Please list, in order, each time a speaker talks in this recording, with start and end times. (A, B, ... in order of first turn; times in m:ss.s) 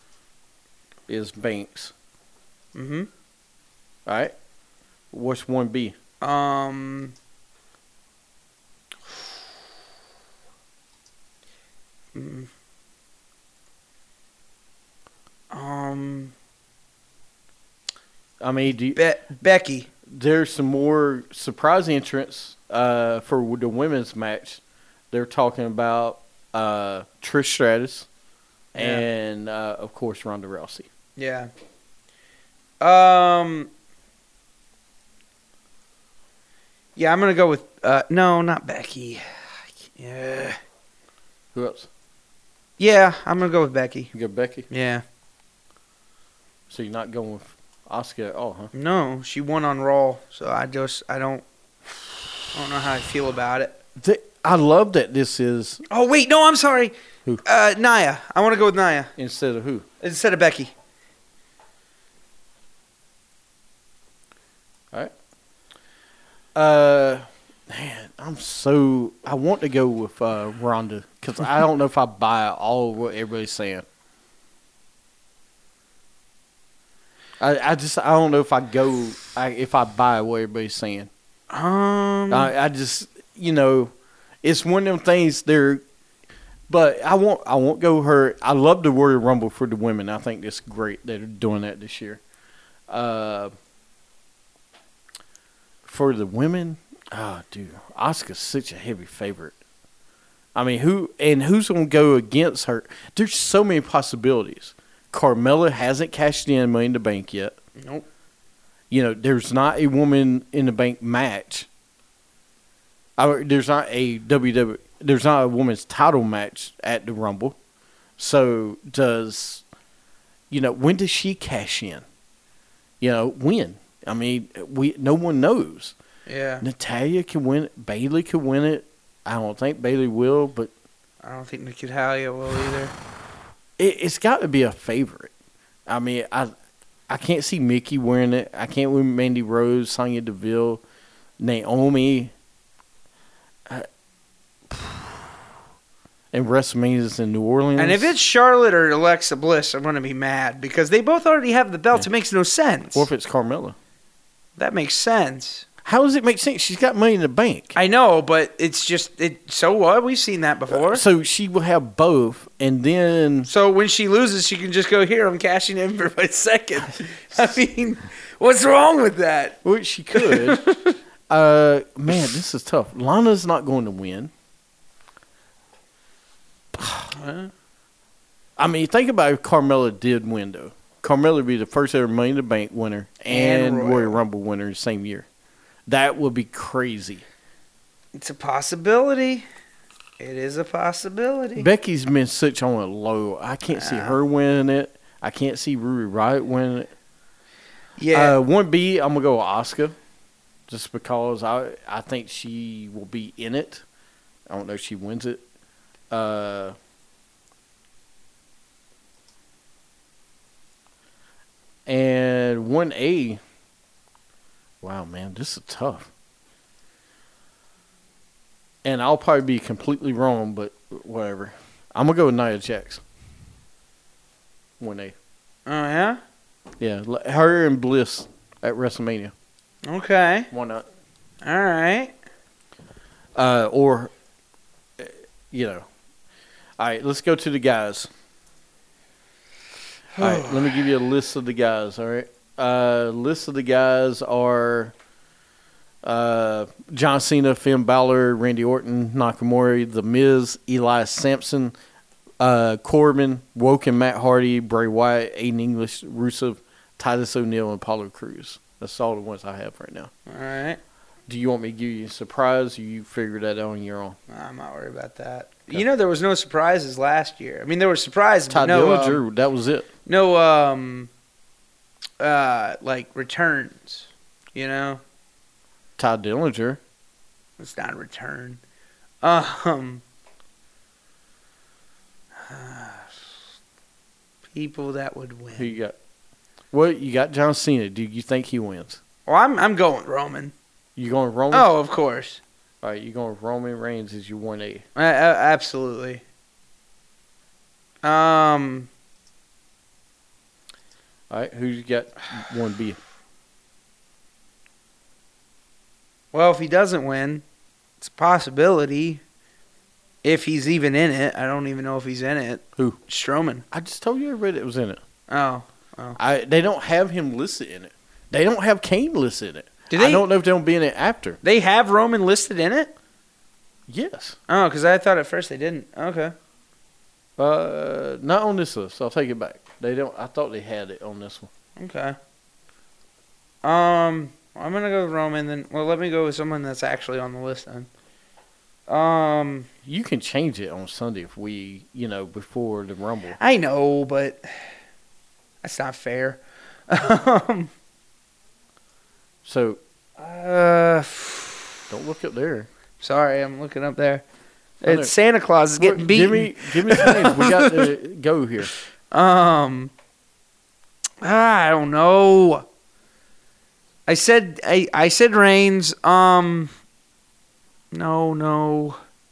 0:01.1-0:01.9 A
0:02.7-0:03.1 B
0:04.0-0:04.3 A
0:05.1-0:06.0 A
0:06.2-0:07.1 B
0:12.1-0:12.5 B
0:15.5-0:16.3 B
0:18.4-0:19.0 A
0:19.0-0:19.9 B
0:20.0-0:28.1 A
0:28.7-0:29.0 B
0:28.8-0:30.9 A
0:31.2-0:31.5 B
0:32.8-0:33.7 B
0:37.0-0:39.2 B
0:39.8-0:40.6 B
0:41.5-0:41.9 A
0:42.8-0:44.1 B
0:44.1-0:44.7 A
0:44.7-0:45.0 B
0:46.7-0:48.7 A
0:48.7-0:51.4 B
0:52.5-0:53.8 B
0:54.0-0:55.8 A
0:55.9-0:59.1 B
0:59.2-0:59.8 A
1:00.0-1:00.7 B
1:06.5-1:13.8 A
1:17.4-1:21.1 A
1:21.5-1:22.5 B
1:22.3-1:25.8 A
1:26.7-1:32.2 A
1:32.9-1:33.5 A
1:35.8-1:39.6 A
1:40.5-1:47.5 A
1:47.8-1:48.0 B
1:48.9-1:51.7 A
1:53.2-1:57.6 A
1:58.2-1:59.6 A
2:00.5-2:02.0 A
2:03.0-2:05.9 A
2:06.3-2:06.6 B
2:06.6-2:10.7 A
2:11.2-2:12.9 B
2:13.8-2:15.3 A
2:15.9-2:16.5 A
2:17.1-2:20.8 A
2:21.4-2:22.3 A
2:24.7-2:25.2 A
2:26.3-2:28.2 A
2:27.8-2:33.1 B
2:32.9-2:33.8 A
2:34.6-2:35.6 B
2:35.8-2:37.8 A
2:37.7-2:41.0 B
2:40.7-2:43.5 A
2:43.4-2:49.6 B
2:49.6-2:50.6 A
2:50.1-2:51.0 B
2:51.3-2:54.3 A
2:56.7-2:57.1 A
2:57.1-2:57.5 B
2:58.6-3:05.2 A
3:03.3-3:04.2 B
3:05.9-3:07.2 A
3:08.1-3:09.4 B
3:10.2-3:11.7 B
3:11.6-3:16.9 A
3:13.7-3:14.2 B
3:18.0-3:18.4 B
3:18.1-3:19.9 A
3:20.7-3:23.8 A
3:24.5-3:25.4 A
3:26.1-3:26.7 A
3:31.8-3:33.4 A
3:34.8-3:36.1 A
3:38.8-3:43.0 A
3:44.8-3:45.1 A
3:45.6-3:46.2 B
3:46.8-3:49.3 A
3:49.8-3:50.5 B
3:50.5-3:50.8 A
3:51.4-3:52.1 B
3:53.3-3:54.1 A
3:55.0-3:55.8 A
3:56.8-3:58.1 A
4:00.2-4:00.8 B
4:00.2-4:04.9 A
4:06.0-4:11.7 A
4:12.4-4:20.1 A
4:20.3-4:20.8 B
4:21.3-4:24.2 A
4:24.3-4:29.2 B
4:28.5-4:29.9 A
4:30.0-4:31.1 B
4:32.2-4:35.0 B
4:36.0-4:36.8 A
4:37.6-4:38.6 B
4:39.2-4:40.0 B
4:42.4-4:43.1 B
4:44.5-4:45.7 B
4:45.5-4:46.0 A
4:46.7-4:49.0 A
4:49.2-4:50.5 B
4:51.0-4:51.7 A
4:51.5-4:52.4 B
4:52.8-4:54.8 A
4:55.0-4:56.2 B
4:58.0-4:58.9 B
5:01.3-5:03.0 A
5:06.3-5:07.4 B
5:08.0-5:09.2 B
5:10.2-5:13.6 B
5:13.7-5:15.0 A
5:15.3-5:16.2 B
5:16.2-5:21.4 A
5:19.9-5:20.2 B
5:21.4-5:22.9 B
5:23.9-5:24.4 A
5:24.5-5:26.3 B
5:27.4-5:31.5 A
5:31.8-5:32.2 B
5:33.6-5:37.9 B
5:38.9-5:39.7 B
5:39.8-5:43.4 A
5:43.4-5:44.5 B
5:45.6-5:47.7 B
5:49.4-5:49.8 A
5:50.2-5:51.8 B
5:51.9-5:52.7 A
5:53.0-5:54.2 B
5:54.8-5:57.9 B
5:54.8-5:55.1 A
5:55.8-5:58.7 A
5:59.1-5:59.9 B
6:01.2-6:02.6 B
6:04.1-6:06.7 B
6:07.9-6:09.0 B